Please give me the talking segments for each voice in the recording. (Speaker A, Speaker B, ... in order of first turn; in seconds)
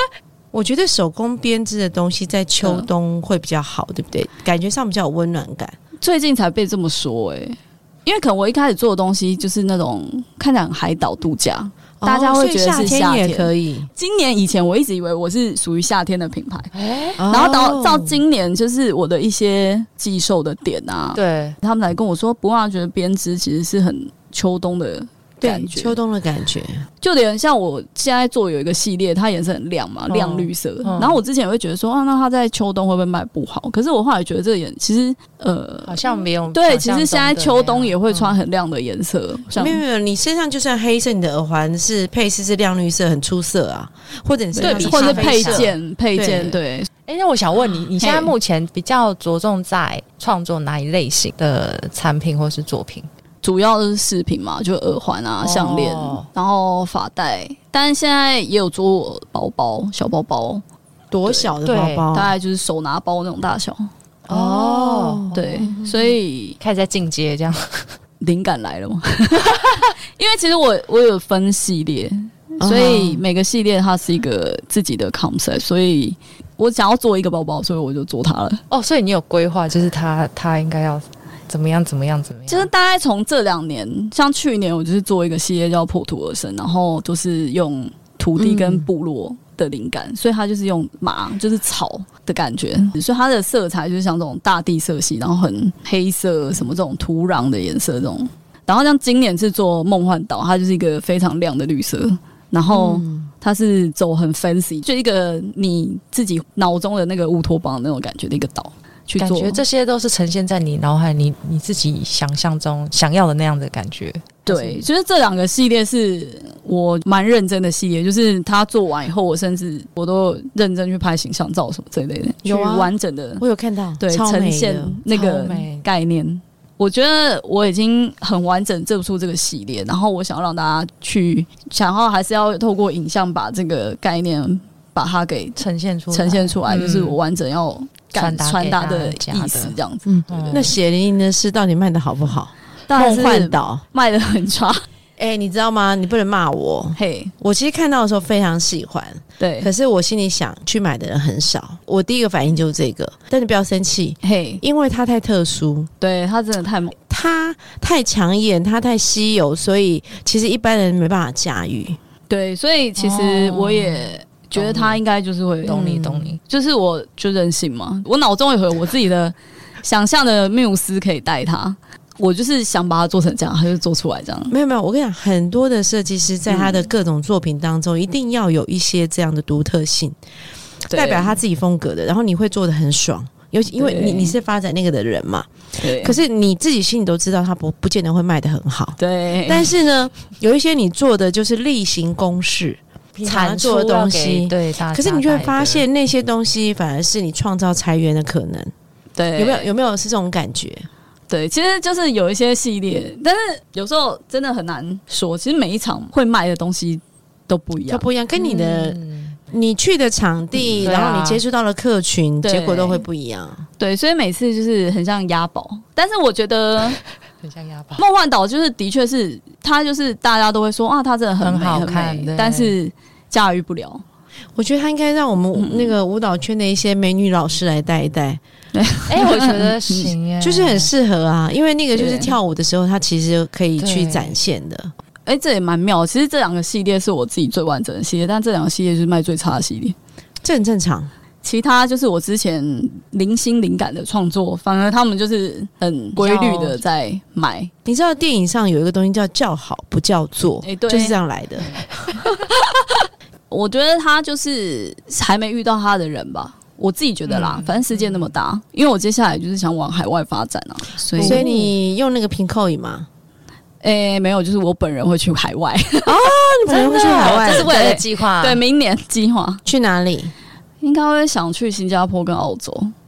Speaker A: 0.5-5.8, 12.0-13.9, 17.2-18.2, 25.4-26.9, 39.5-46.6, 61.1-62.3, 64.3-66.1, 72.6-73.2, 102.7-103.3, 114.5-114.8, 122.5-125.0, 140.1-143.8, 145.2-155.9, 157.1-162.0, 165.7-166.3, 174.5-180.2, 180.9-198.7, 199.4-200.9, 207.9-209.0, 209.5-213.7, 224.6-228.4, 230.4-234.9, 240.4-241.1, 246.2-246.8, 247.9-251.8, 261.2-263.1, 266.1-267.7, 269.7-270.3
Speaker B: 2.6-2.9, 6.0-16.7, 17.3-26.0, 27.0-39.8, 44.5-46.9, 48.0-48.3, 53.4-60.6, 61.3-61.5, 62.1-63.9, 65.3-66.6, 68.2-78.6, 82.5-109.6, 114.5-123.4, 124.0-140.1, 142.9-144.8, 147.0-147.3, 149.4-149.7, 154.2-154.6, 156.0-156.9, 162.3-165.8, 166.4-174.5, 176.5-176.8, 180.9-181.4, 183.8-184.3, 185.8-186.2, 189.0-189.7, 199.2-199.7, 201.3-208.1, 212.4-213.0, 213.8-217.0, 218.0-224.0, 225.6-225.9, 228.7-230.1, 231.9-232.3, 235.3-240.0, 241.4-247.7, 250.6-251.2, 253.5-261.5, 263.8-269.6, 270.8-272.9
Speaker C: 16.7-17.2, 21.1-21.6, 30.1-31.2, 35.9-38.4, 44.6-45.7, 47.1-53.1, 55.4-56.3, 61.6-62.0, 64.3-65.5, 66.6-68.0, 78.7-82.7, 109.2-114.4, 125.1-125.8, 135.6-137.2, 138.1-139.7, 140.3-140.8, 163.0-165.0, 165.6-166.4, 193.2-195.8, 208.4-209.4, 210.8-211.4, 217.4-218.0, 221.4-222.8, 229.1-230.9, 233.8-234.3, 257.3-258.3, 261.2-261.7, 266.7-268.6